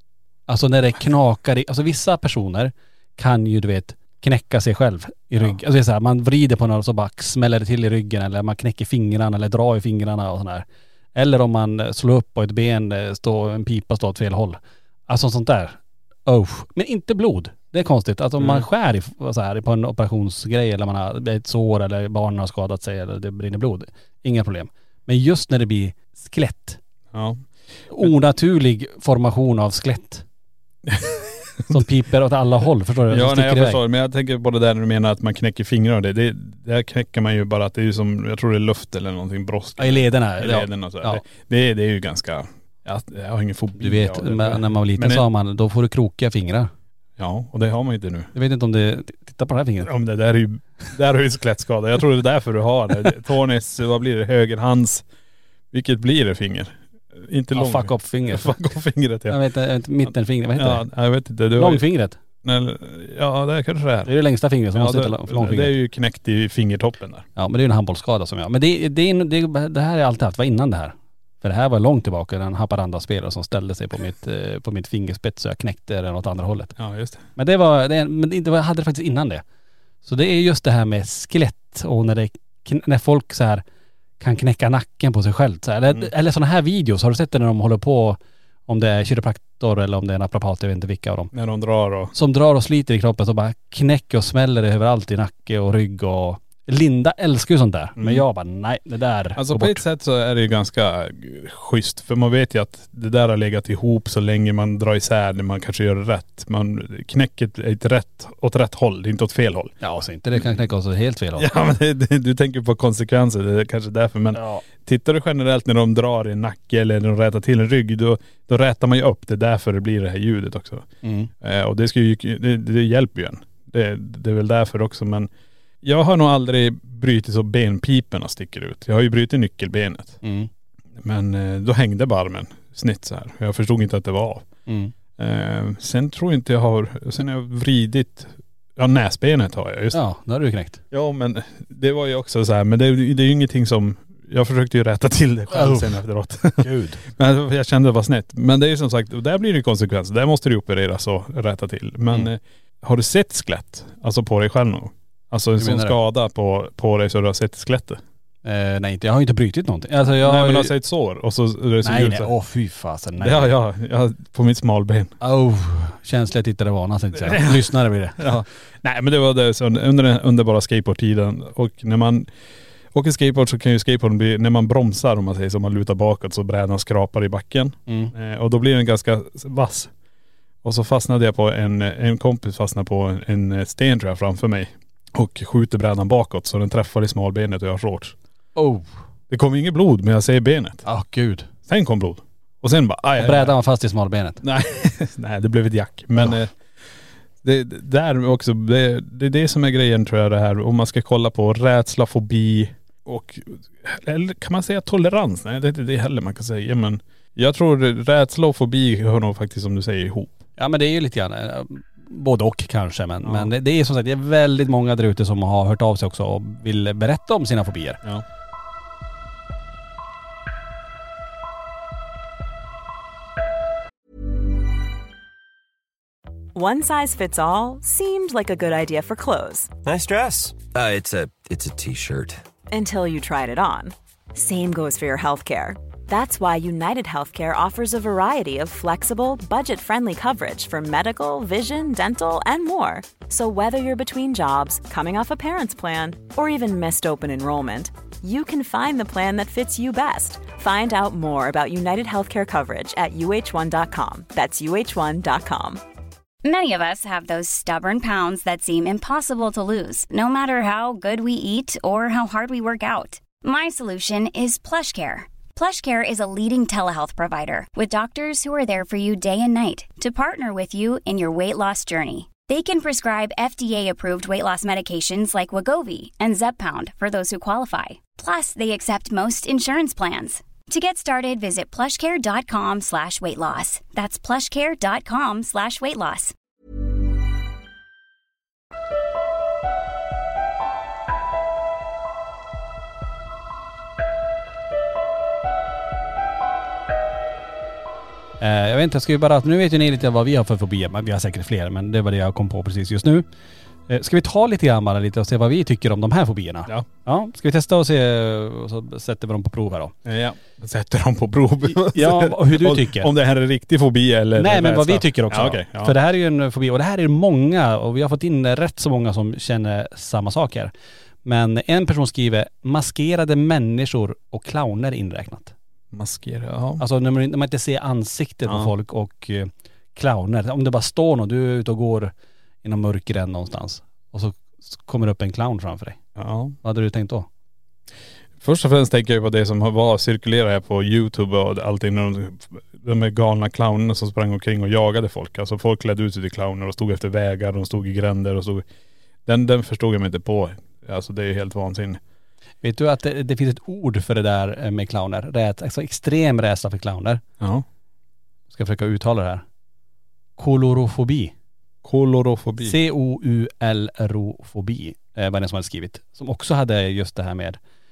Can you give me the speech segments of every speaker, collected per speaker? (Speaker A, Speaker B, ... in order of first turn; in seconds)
Speaker A: 0.5-26.8, 27.9-30.2, 31.7-33.8, 39.8-41.2, 43.8-46.7, 48.4-49.9, 57.5-58.5, 59.3-60.9, 61.5-62.2, 64.1-65.7, 67.4-76.8, 77.4-79.4, 80.0-83.6, 84.2-91.3, 92.1-99.8, 109.8-111.5, 114.3-114.6, 121.0-121.3, 130.2-130.5, 134.7-134.9, 139.9-140.8, 145.5-146.0, 146.6-147.0, 155.6-156.0, 158.4-160.7, 161.8-163.5, 165.2-168.3, 177.9-178.1, 188.6-188.9, 190.9-191.5, 193.2-194.4, 210.6-218.0, 298.4-303.2, 303.9-309.9, 311.7-313.1, 314.4-320.7, 321.2-325.5, 326.8-332.1, 332.6-336.0, 336.6-337.3, 352.6-357.2, 358.5-359.4, 360.4-361.3, 362.6-367.6
Speaker B: 18.4-18.6, 27.1-27.4, 30.9-31.8, 33.1-45.2, 47.2-48.3, 49.8-55.0, 55.7-59.4, 60.6-61.9, 62.4-64.1, 64.7-67.3, 76.8-77.2, 91.3-92.1, 98.0-98.2, 99.4-109.7, 111.4-120.9, 121.4-125.3, 125.8-130.2, 131.0-134.5, 135.2-140.0, 140.9-158.0, 160.2-162.3, 163.2-165.1, 167.2-172.3, 172.9-179.9, 180.6-188.2, 189.3-190.9, 191.7-193.6, 194.4-196.5, 197.4-210.4, 213.2-213.5, 310.1-316.0, 325.9-326.8, 328.5-328.7, 336.2-336.6, 338.4-348.6, 349.3-352.0, 357.4-357.6, 361.8-362.8
Speaker C: 226.5-229.7, 232.7-255.8
Speaker D: 229.8-232.4
Speaker E: 256.4-286.3